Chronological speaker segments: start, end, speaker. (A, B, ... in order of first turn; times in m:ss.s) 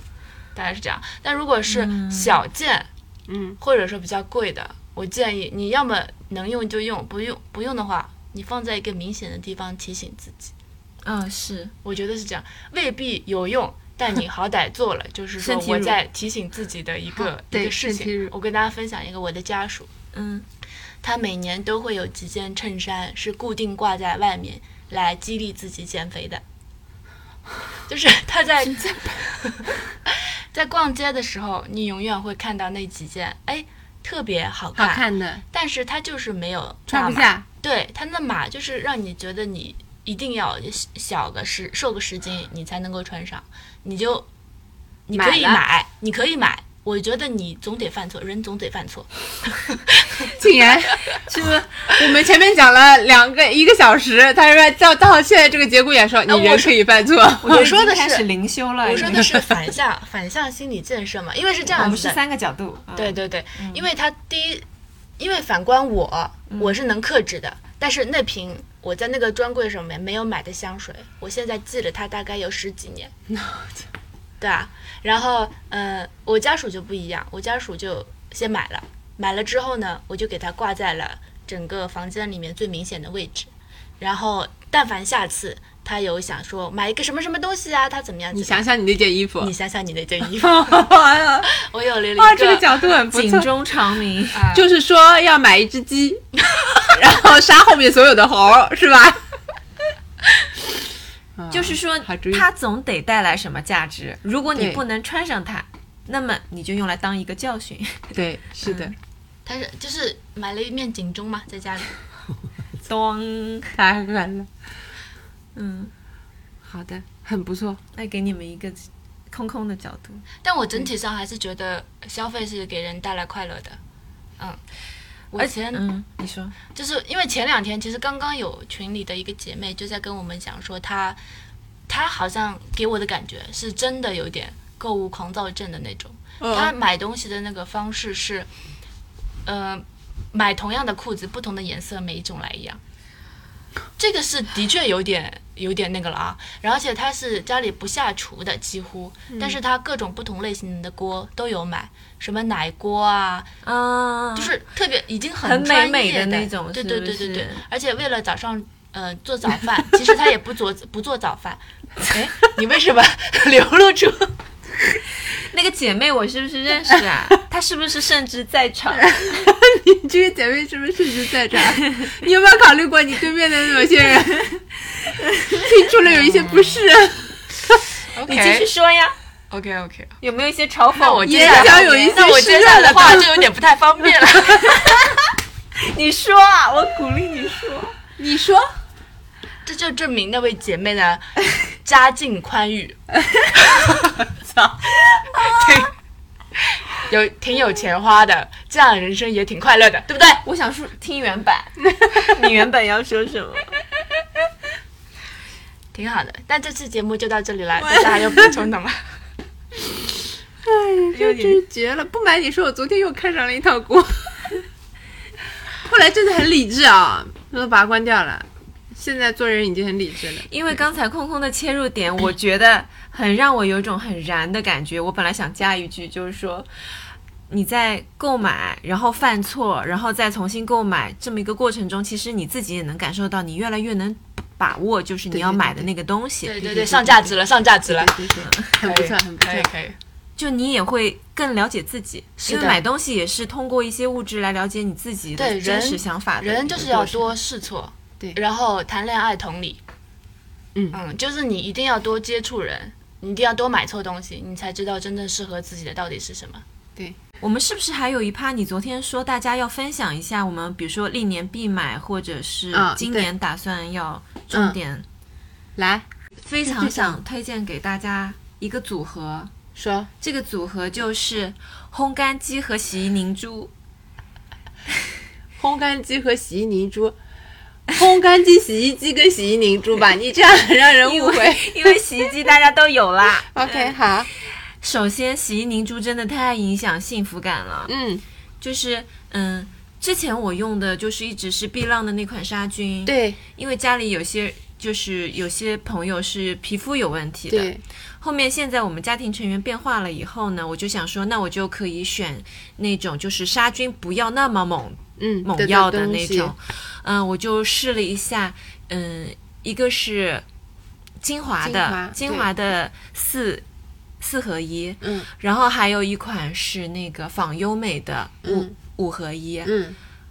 0:00.5-0:02.9 A
0:01.7-0:02.4 B
0:03.3-0:03.6 C
0:03.6-0:10.5 A
0:11.0-0:11.7 B
0:11.8-0:19.9 A
0:15.4-0:16.0 B
0:17.2-0:18.3 C
0:20.1-0:20.4 B
0:21.0-0:26.4 A
0:27.9-0:44.3 A
0:34.8-0:35.4 C
0:36.9-0:37.4 C
0:45.1-0:50.3 A
0:45.1-0:45.6 C
0:50.3-0:51.2 C
0:51.2-0:51.8 B
0:51.9-0:57.7 C
0:56.3-0:56.8 A
0:57.4-0:59.3 B
0:57.5-0:58.2 A
0:58.8-1:02.2 A
1:01.7-1:03.8 B
1:03.0-1:04.6 A
1:05.2-1:13.1 A
1:06.5-1:06.8 B
1:13.3-1:13.8 C
1:14.4-1:28.6 A
1:28.3-1:29.5 C
1:29.4-1:30.8 A
1:30.4-1:31.5 C
1:31.5-1:32.8 A
1:32.2-1:33.5 C
1:33.1-1:34.4 B
1:34.3-1:34.7 A
1:34.5-1:36.2 C
1:36.9-1:39.2 C
1:41.4-1:42.5 C
1:41.5-1:48.9 B
1:44.5-1:44.8 C
1:48.1-1:48.9 C
1:49.4-1:52.0 A
1:52.8-1:53.7 B
1:53.7-1:54.5 C
1:55.5-1:55.9 B
1:56.6-1:57.8 C
1:57.9-2:00.2 B
2:00.4-2:03.8 A
2:05.3-2:05.8 A
2:05.4-2:06.5 B
2:06.7-2:11.2 A
2:11.9-2:18.5 A
2:16.4-2:16.7 C
2:19.4-2:22.8 A
2:24.0-2:33.5 A
2:29.3-2:29.6 C
2:33.6-2:34.5 B
2:34.4-2:44.3 A
2:35.4-2:37.6 B
2:45.3-2:49.3 B
2:49.0-2:54.6 C
2:55.2-2:55.7 B
2:55.5-2:57.8 C
2:56.0-2:56.8 A
2:58.1-2:58.7 A
2:58.2-2:59.1 B
2:59.5-3:00.2 A
3:00.2-3:02.1 B
3:00.9-3:04.8 A
3:01.2-3:03.4 C
3:04.6-3:05.2 B
3:05.8-3:08.0 B
3:08.2-3:08.7 C
3:09.6-3:13.0 A
3:13.5-3:14.2 A
3:14.3-3:14.8 C
3:15.2-3:15.9 A
3:15.4-3:15.6 B
3:16.7-3:20.4 A
3:20.4-3:23.7 B
3:25.9-3:29.1 A
3:27.8-3:28.5 C
3:30.6-3:34.5 C
3:31.1-3:31.6 B
3:35.8-3:40.5 C
3:40.4-3:46.7 B
3:47.5-3:56.6 B
3:55.3-3:55.9 C
3:56.4-3:58.2 A
3:56.6-3:57.3 C
3:57.8-3:59.7 C
3:58.3-3:58.8 B
3:58.8-4:00.0 A
4:00.4-4:07.2 B
4:02.5-4:02.8 A
4:05.4-4:09.8 A
4:10.9-4:16.6 A
4:17.4-4:25.0 B
4:22.7-4:23.3 C
4:24.5-4:24.8 C
4:25.8-4:26.1 C
4:26.4-4:29.5 B
4:26.6-4:27.2 C
4:29.8-4:30.1 C
4:30.2-4:33.7 B
4:35.6-4:37.2 C
4:37.9-4:42.0 C
4:41.0-4:44.0 B
4:43.5-4:44.3 C
4:44.8-4:47.9 B
4:47.9-4:48.2 C
4:48.6-5:10.4 B
4:53.0-4:53.4 C
4:57.5-4:57.8 C
5:05.2-5:06.5 C
5:11.2-5:13.6 B
5:11.6-5:12.5 C
5:14.2-5:19.7 B
5:15.0-5:15.3 C
5:18.4-5:18.7 C
5:19.6-5:20.0 C